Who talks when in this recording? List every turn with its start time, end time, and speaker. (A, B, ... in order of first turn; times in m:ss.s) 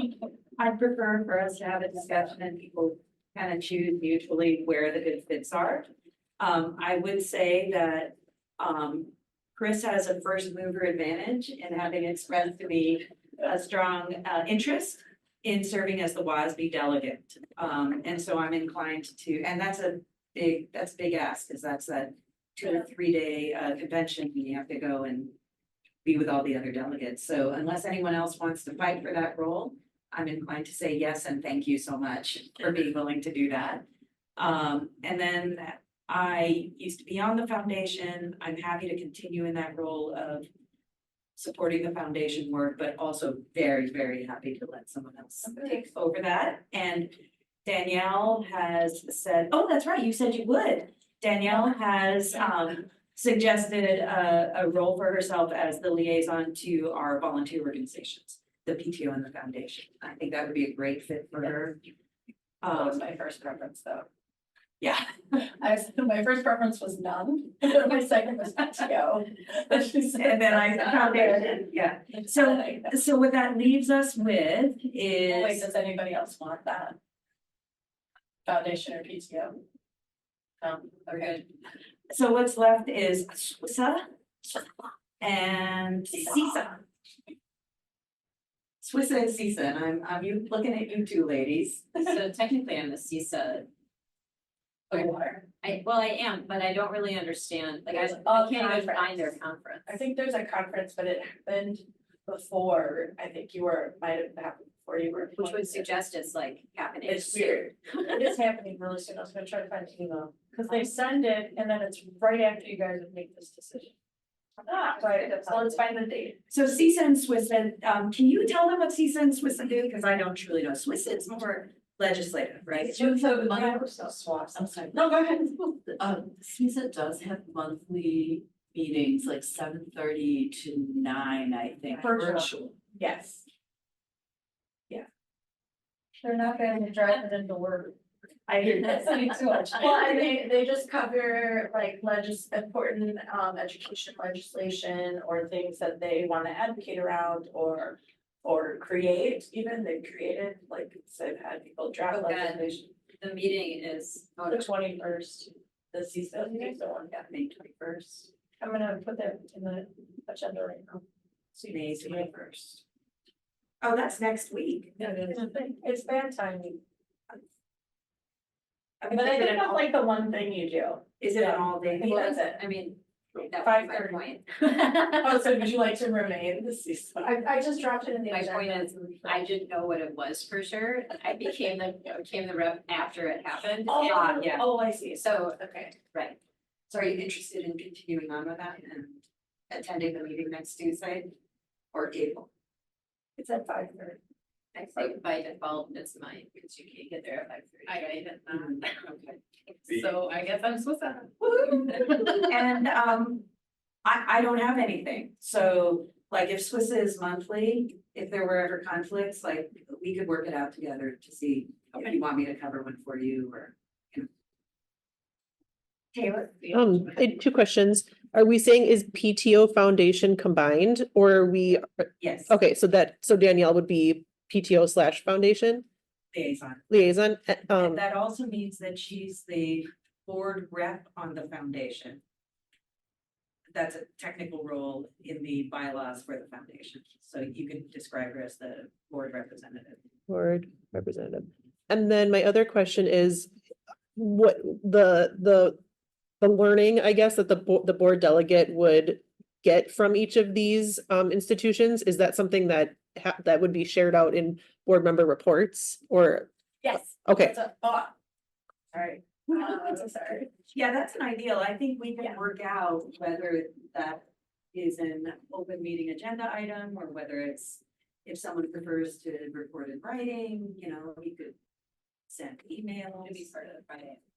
0:00.6-0:05.9 A
0:06.4-0:25.3 A
0:26.0-0:33.8 A
0:34.4-0:40.5 A
0:41.4-1:01.8 A
1:02.6-1:03.1 A
1:02.7-1:04.1 B
1:04.8-1:05.2 A
1:05.6-1:12.9 B
1:10.2-1:15.7 A
1:15.3-1:17.0 B
1:18.4-1:19.6 B
1:20.6-1:21.4 B
1:21.1-1:21.4 C
1:22.1-1:24.1 A
1:25.2-1:26.8 A
1:28.8-1:32.1 A
1:32.0-1:33.7 C
1:34.9-1:40.0 C
1:37.9-1:45.9 B
1:45.4-1:48.3 C
1:47.0-1:53.9 B
1:54.7-1:56.4 B
1:56.5-2:03.8 A
2:03.0-2:05.5 B
2:03.0-2:04.3 D
2:04.6-2:04.8 A
2:05.9-2:12.7 D
2:12.0-2:12.5 A
2:12.0-2:13.4 B
2:16.2-2:18.0 B
2:18.5-2:20.1 A
2:18.7-2:32.9 B
2:32.1-2:34.7 C
2:34.5-2:37.1 B
2:36.6-2:38.3 A
2:38.6-2:41.0 B
2:41.6-2:42.8 A
2:41.6-2:42.8 B
2:43.8-2:45.5 A
2:45.0-2:46.8 B
2:49.0-2:49.8 A
2:49.1-2:52.6 B
2:51.2-2:52.2 A
2:52.0-2:55.5 C
2:53.4-2:54.4 B
2:55.0-2:59.5 B
2:58.3-3:06.3 C
3:03.8-3:05.2 B
3:03.9-3:04.7 A
3:06.9-3:11.3 A
3:11.9-3:12.5 A
3:13.4-3:14.2 A
3:14.7-3:19.1 C
3:18.5-3:19.3 A
3:19.8-3:21.2 C
3:21.7-3:23.5 A
3:24.0-3:34.3 A
3:36.1-3:36.9 A
3:36.7-3:45.9 E
3:42.2-3:42.5 A
3:46.3-3:47.0 A
3:46.9-3:48.0 E
3:47.8-3:52.2 A
3:53.7-4:00.0 A
4:00.3-4:03.5 E
4:04.2-4:05.8 E
4:06.4-4:16.5 E
4:16.8-4:18.1 B
4:17.2-4:17.6 E
4:18.9-4:20.0 A
4:19.5-4:20.5 B
4:20.6-4:31.6 A
4:32.3-4:33.5 A
4:33.2-4:34.2 C